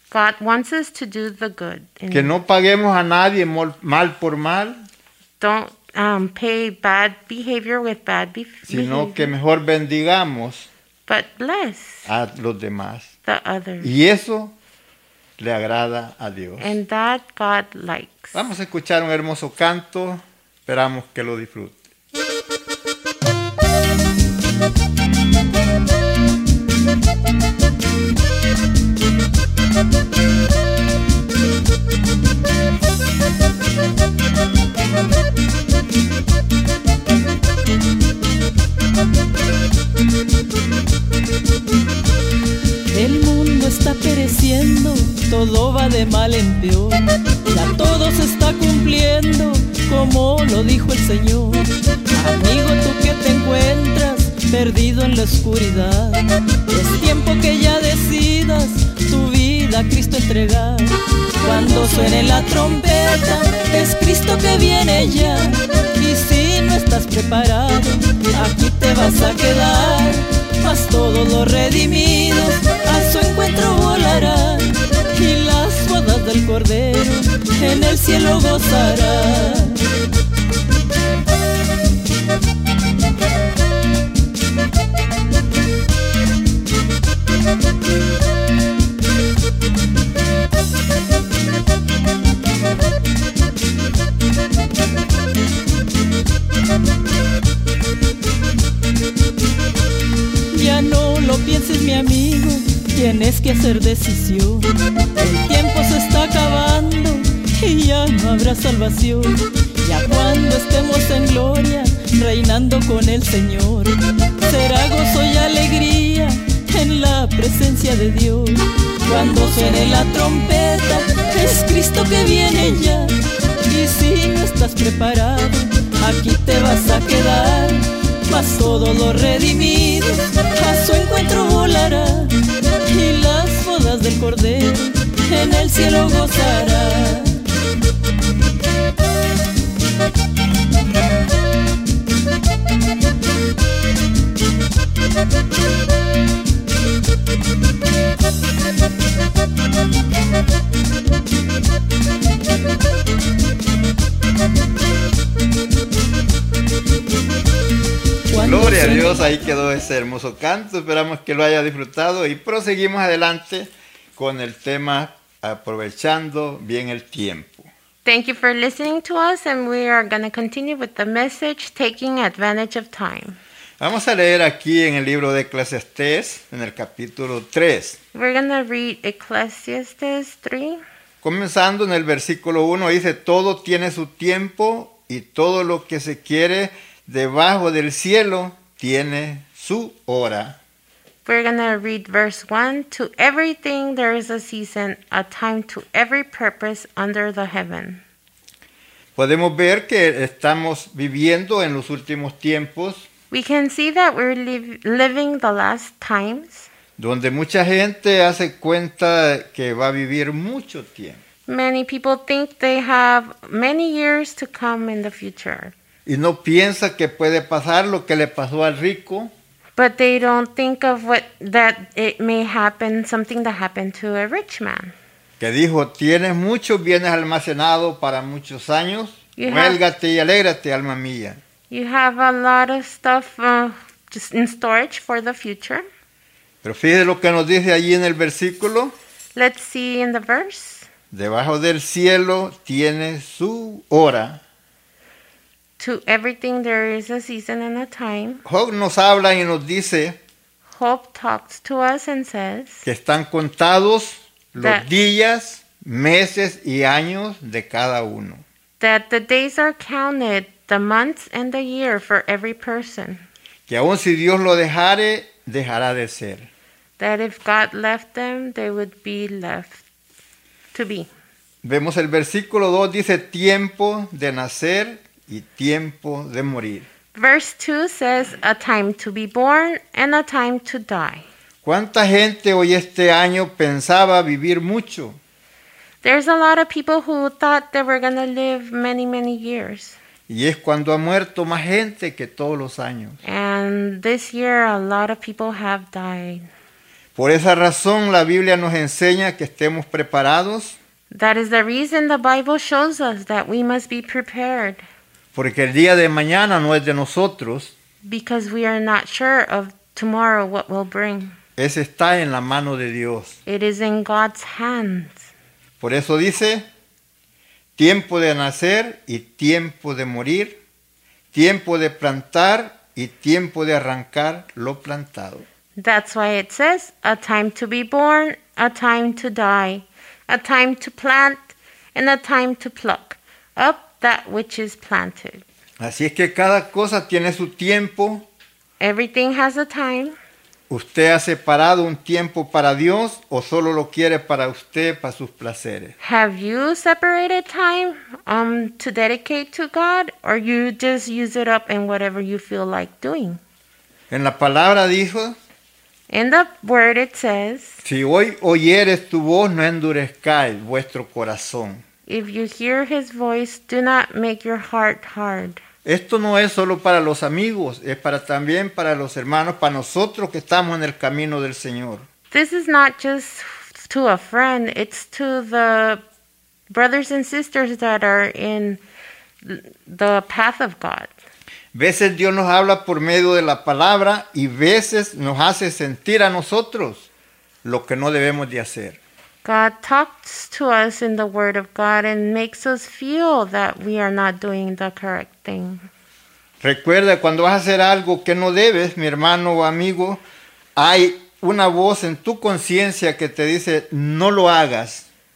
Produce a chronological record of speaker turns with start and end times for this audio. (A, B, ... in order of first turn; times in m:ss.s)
0:00.1-0:02.3 A
0:02.1-0:04.8 B
0:05.4-0:09.3 A
0:08.7-0:10.7 B
0:11.1-0:12.1 A
0:12.0-0:13.1 B
0:13.2-0:13.9 A
0:13.8-0:14.5 B
0:15.4-0:16.8 B
0:16.6-0:18.4 A
0:18.3-0:21.8 B
0:42.9-1:19.9 C
1:40.5-2:03.2 C
2:03.7-2:17.4 C
2:38.3-2:39.3 C
2:38.4-2:47.7 B
2:48.0-2:53.4 A
2:53.8-2:58.0 B
2:58.1-3:00.8 A
3:01.2-3:10.6 B
3:11.2-3:18.0 A
3:19.2-3:23.0 B
3:23.3-3:26.7 A
3:27.0-3:31.2 B
3:31.5-3:35.7 A
3:36.0-3:39.3 B
3:39.8-3:44.9 A
3:45.4-3:51.4 B
3:49.4-3:49.8 A
3:51.7-3:55.8 A
3:56.6-3:59.0 B
3:59.3-4:00.9 A
4:01.1-4:04.4 B
4:05.8-4:08.4 A
4:08.4-4:10.2 B
4:10.7-4:12.8 A
4:12.8-4:18.4 B
4:14.6-4:14.8 A
4:18.8-4:23.2 A
4:23.7-4:26.5 B
4:27.0-4:29.8 A
4:30.7-4:31.1 A
4:31.6-4:36.9 B
4:37.1-4:41.2 A
4:41.6-4:45.2 B
4:46.0-4:50.0 A
4:50.3-4:53.2 B
4:53.2-4:56.5 A
4:57.1-5:00.8 B
5:01.1-5:04.8 A
5:05.3-5:07.7 B
5:08.0-5:11.4 A
5:11.6-5:13.4 B
5:13.4-5:15.3 A
5:15.8-5:16.6 B
5:17.8-5:20.6 B
5:21.3-5:25.4 B
5:25.8-5:35.4 A
5:35.8-5:38.2 B
5:38.8-5:40.2 A
5:40.7-5:46.0 B
5:46.0-5:53.4 A
5:54.1-5:55.4 B
5:56.1-5:57.8 A
5:57.8-6:01.8 B
6:02.1-6:05.6 A
6:05.8-6:12.0 B
6:12.3-6:16.0 A
6:16.7-6:18.8 A
6:19.4-6:21.1 A
6:21.7-6:27.1 B
6:27.6-6:29.0 B
6:29.4-6:35.8 A
6:36.6-6:40.2 B
6:40.8-6:45.1 B